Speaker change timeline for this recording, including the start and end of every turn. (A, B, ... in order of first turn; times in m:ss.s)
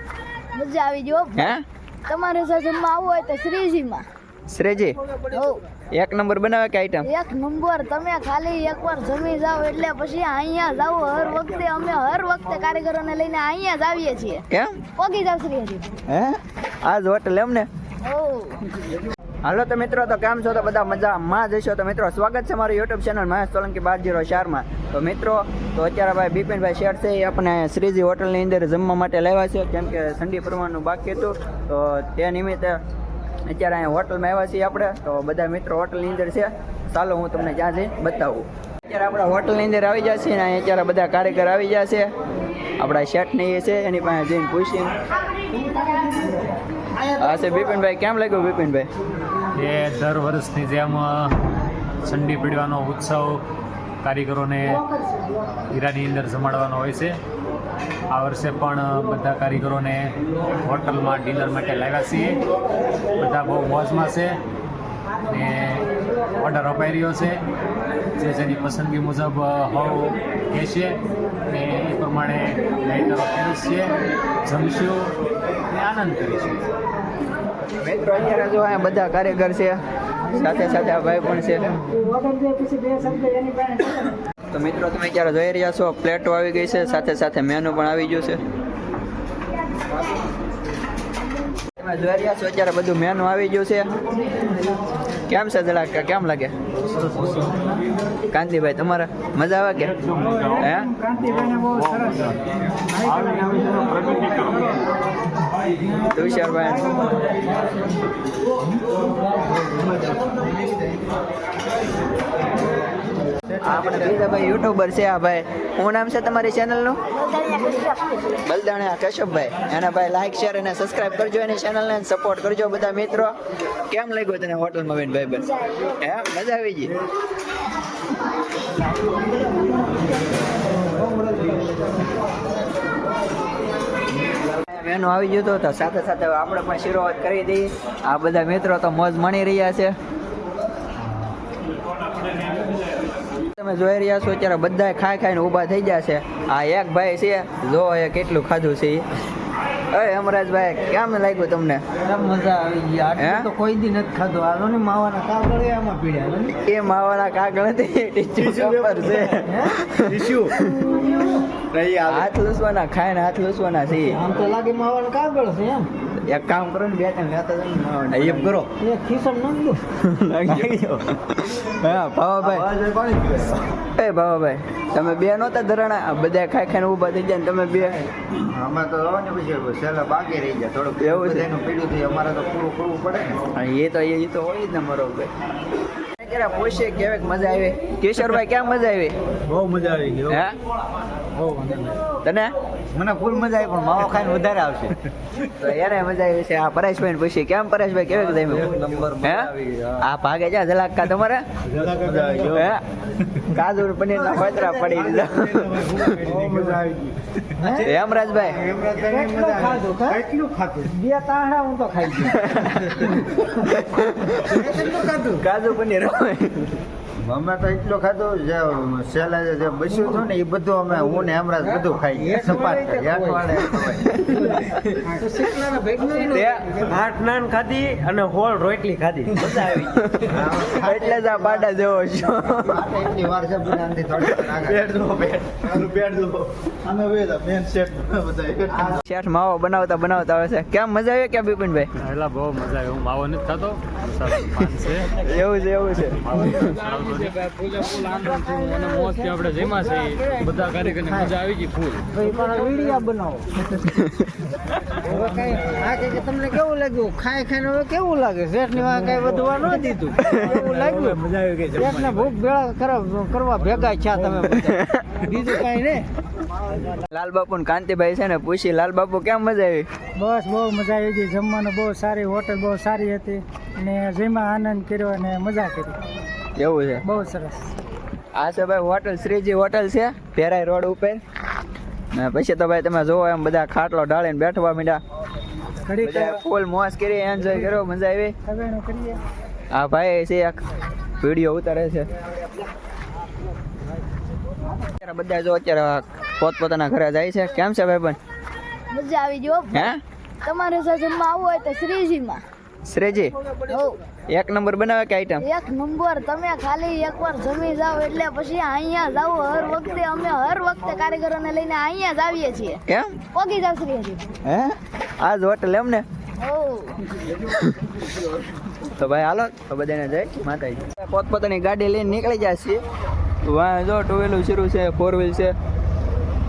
0:00.5-0:04.0 A
0:01.4-0:01.6 B
0:04.5-0:05.0 B
0:05.3-0:05.6 A
0:05.9-0:07.1 B
0:07.0-0:14.4 A
0:14.5-0:14.8 B
0:15.0-0:15.9 A
0:16.1-0:17.7 B
0:18.0-0:18.7 A
0:19.4-0:32.8 B
0:33.5-0:42.1 B
0:42.8-0:45.0 B
0:47.0-0:48.9 B
0:49.6-0:51.4 C
0:52.0-0:53.4 C
0:54.0-0:54.9 C
0:55.7-0:57.2 C
0:58.1-1:02.4 C
1:03.2-1:04.4 C
1:05.3-1:07.4 C
1:08.2-1:13.9 C
1:14.5-1:15.1 C
1:15.7-1:16.7 C
1:17.8-1:19.8 B
1:20.3-1:21.8 B
1:21.9-1:24.0 D
1:24.5-1:28.4 B
1:31.8-1:33.9 B
1:35.3-1:36.5 B
1:38.3-1:40.0 B
1:40.3-1:42.2 D
1:40.6-1:40.9 B
1:42.9-1:44.9 D
1:46.1-1:47.1 B
1:49.7-1:51.0 E
1:53.4-1:54.2 E
1:53.6-1:57.0 B
1:57.2-1:58.1 A
1:58.4-2:03.4 B
2:03.9-2:06.9 B
2:14.4-2:20.0 B
2:23.5-2:29.1 B
2:29.9-2:31.8 B
2:32.0-2:36.6 F
2:33.2-2:33.5 B
2:36.5-2:40.9 B
2:38.7-2:42.3 F
2:41.8-2:42.1 E
2:42.0-2:44.2 B
2:44.1-2:45.9 F
2:46.2-2:48.6 B
2:48.2-2:49.8 F
2:50.0-2:52.7 B
2:52.4-2:53.6 E
2:53.9-2:58.1 B
2:58.4-3:03.4 E
3:01.0-3:01.5 B
3:03.5-3:05.3 B
3:06.2-3:09.2 B
3:09.5-3:10.4 E
3:10.3-3:10.6 B
3:11.4-3:12.0 F
3:12.2-3:12.5 B
3:13.0-3:15.0 E
3:15.6-3:21.4 B
3:18.8-3:19.8 E
3:21.8-3:22.7 E
3:21.8-3:22.4 F
3:22.5-3:22.8 B
3:23.4-3:26.3 B
3:24.9-3:27.2 E
3:26.2-3:26.9 F
3:27.6-3:28.0 F
3:27.8-3:28.6 B
3:28.6-3:33.6 F
3:28.7-3:29.8 E
3:32.4-3:34.7 B
3:34.4-3:35.4 F
3:35.4-3:36.8 B
3:37.2-3:44.1 E
3:41.6-3:43.7 F
3:44.0-3:44.9 B
3:44.2-3:49.8 F
3:46.3-3:46.8 B
3:49.4-3:52.8 B
3:50.3-3:51.8 E
3:52.6-3:59.0 E
3:58.9-4:01.9 B
4:02.0-4:05.1 C
4:05.2-4:06.7 B
4:06.2-4:12.6 C
4:07.9-4:11.4 F
4:12.1-4:13.7 F
4:13.9-4:14.5 B
4:15.0-4:26.1 F
4:20.2-4:20.5 B
4:24.6-4:25.1 B
4:27.1-4:29.9 B
4:30.2-4:36.0 D
4:36.6-4:37.0 B
4:37.0-4:37.7 D
4:38.4-4:41.2 B
4:42.1-4:45.0 B
4:45.9-4:46.4 D
4:46.0-4:48.4 B
4:48.5-4:49.2 D
4:49.7-4:50.6 B
4:51.2-4:52.1 B
4:54.8-4:58.2 B
4:58.9-4:59.9 A
4:59.7-5:00.0 B
5:00.4-5:02.4 A
5:02.8-5:03.3 B
5:03.6-5:04.0 A
5:04.3-5:05.5 B
5:05.4-5:14.3 A
5:12.9-5:13.2 B
5:14.4-5:16.0 B
5:16.4-5:17.0 A
5:17.4-5:17.8 B
5:18.9-5:22.8 B
5:23.4-5:25.5 B